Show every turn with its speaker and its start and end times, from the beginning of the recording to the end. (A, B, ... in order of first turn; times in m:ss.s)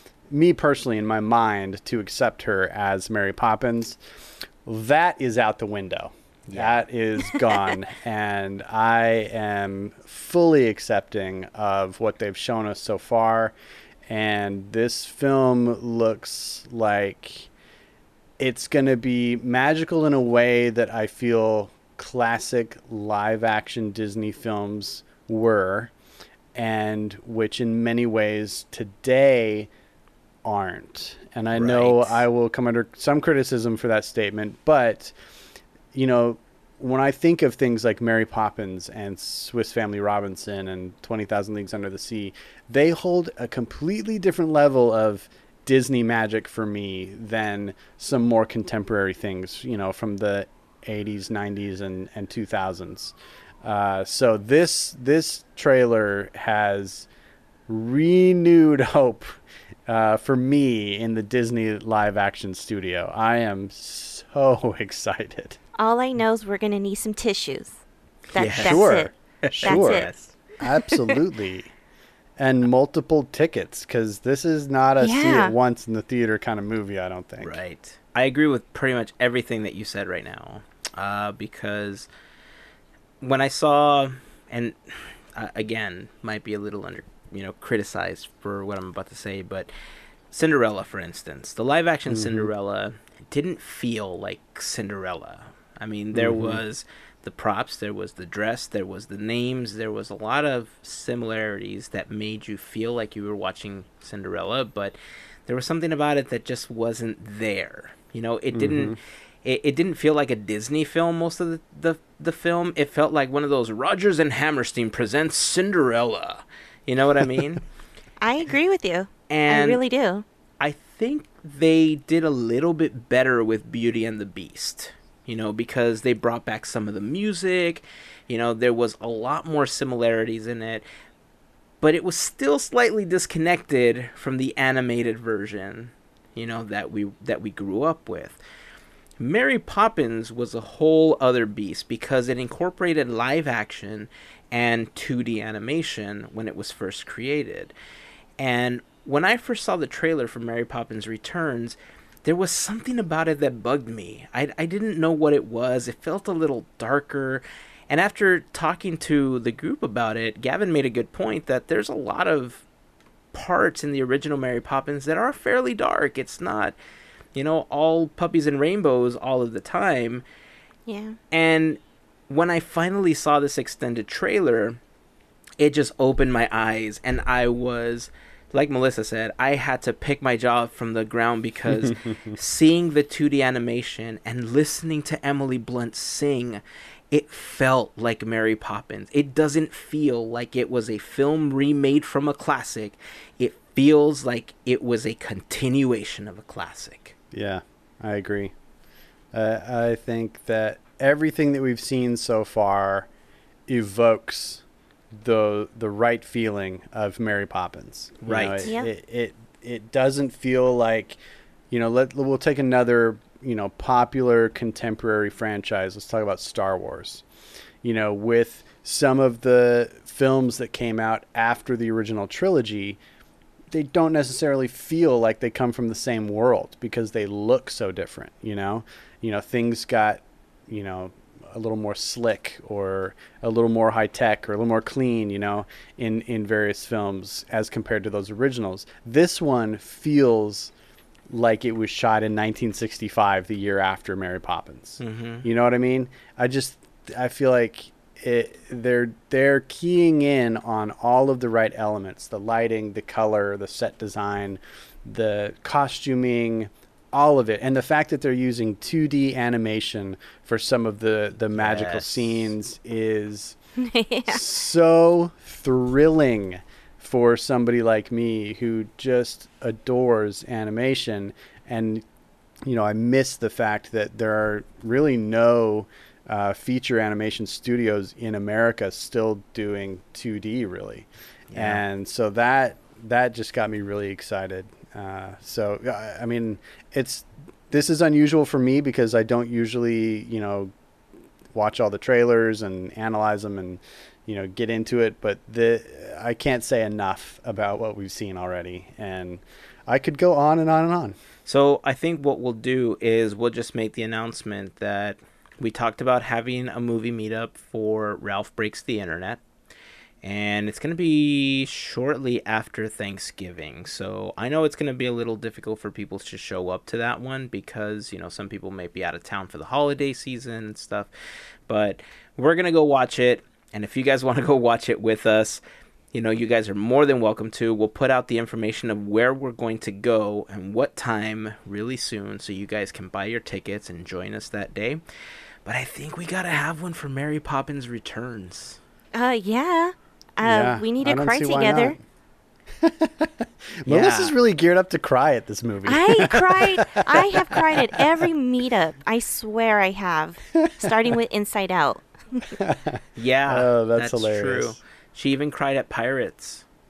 0:00.3-0:04.0 A
0:04.6-0:13.5 A
0:06.5-0:06.8 B
0:14.1-0:17.5 A
0:18.4-0:25.9 A
0:26.5-0:29.7 A
0:30.4-0:35.2 A
0:31.5-0:32.2 B
0:35.9-0:57.1 A
0:57.7-1:05.6 A
1:05.8-1:07.8 C
1:08.3-1:09.1 C
1:08.3-1:10.3 B
1:08.6-1:11.7 A
1:09.6-1:10.1 C
1:10.6-1:11.2 C
1:12.4-1:17.6 A
1:15.0-1:15.5 C
1:17.4-1:22.1 B
1:23.2-1:29.7 B
1:30.3-1:57.6 B
1:32.1-1:32.5 A
1:36.1-1:36.6 A
1:48.5-1:49.0 A
1:58.2-2:00.2 C
1:59.3-1:59.8 B
2:00.6-2:10.8 B
2:11.8-2:18.4 B
2:19.2-2:27.7 B
2:28.4-2:42.6 B
2:43.3-2:46.8 B
2:47.4-2:50.2 B
2:50.9-2:51.2 C
2:51.3-2:54.8 B
2:55.6-3:17.2 B
3:01.8-3:02.1 A
3:17.3-3:18.5 A
3:19.3-3:23.1 A
3:23.7-3:31.2 A
3:28.2-3:28.7 B
3:31.7-3:37.2 A
3:37.8-3:43.0 A
3:43.7-4:00.7 A
4:01.3-4:23.6 A
4:05.0-4:05.5 B
4:21.6-4:22.5 B
4:23.8-4:24.5 C
4:24.3-4:32.0 A
4:32.6-4:50.7 A
4:41.5-4:41.8 B
4:51.5-5:01.2 A
5:01.5-5:09.4 B
5:10.2-5:21.1 B
5:21.7-5:25.6 B
5:26.1-5:35.0 B
5:35.6-5:38.8 B
5:39.1-5:42.0 C
5:40.4-5:42.0 A
5:42.8-5:48.3 A
5:43.9-5:44.3 B
5:45.9-5:52.6 C
5:50.6-5:50.9 A
5:52.6-5:54.8 A
5:53.2-5:56.6 B